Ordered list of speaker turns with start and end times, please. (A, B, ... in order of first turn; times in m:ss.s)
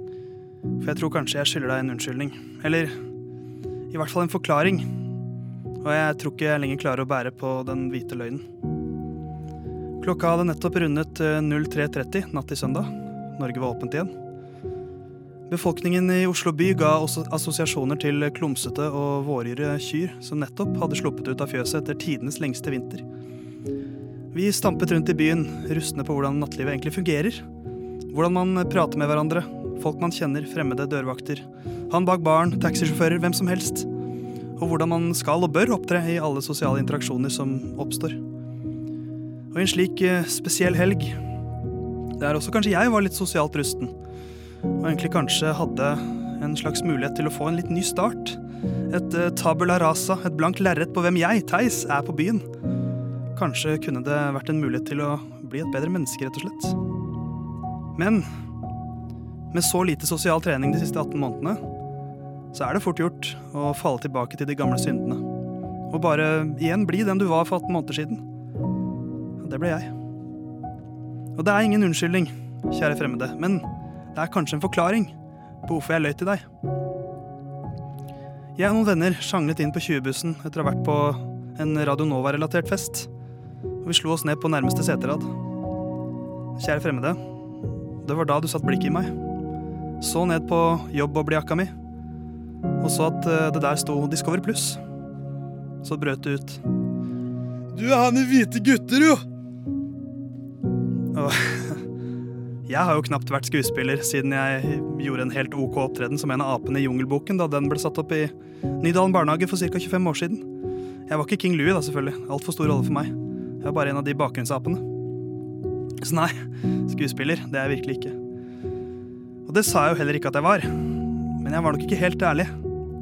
0:00.8-0:02.9 A
0:03.9-0:05.0 A
0:05.8-0:08.4 A
0:10.0-0:14.1 A
0:15.5-0:23.0 A
0:24.3-0:27.4 A
0:28.1-0:33.9 A
0:34.6-0:38.2 A
0:39.5-0:41.2 A
0:42.2-0:43.9 A
0:44.8-0:48.4 A
0:48.9-0:52.5 A
0:53.3-0:56.8 A
0:58.0-0:58.3 A
0:59.5-1:01.6 A
1:02.5-1:05.2 A
1:05.9-1:08.2 A
1:09.4-1:09.9 A
1:11.3-1:15.1 A
1:15.6-1:16.4 A
1:18.6-1:23.1 A
1:23.8-1:25.3 A
1:26.6-1:27.2 A
1:28.0-1:29.1 A
1:30.0-1:31.7 A
1:32.8-1:34.8 A
1:35.8-1:36.6 A
1:37.7-1:39.2 A
1:41.1-1:41.8 A
1:42.7-1:50.5 A
1:51.1-1:54.8 A
1:56.0-1:58.2 A
1:59.4-2:02.5 A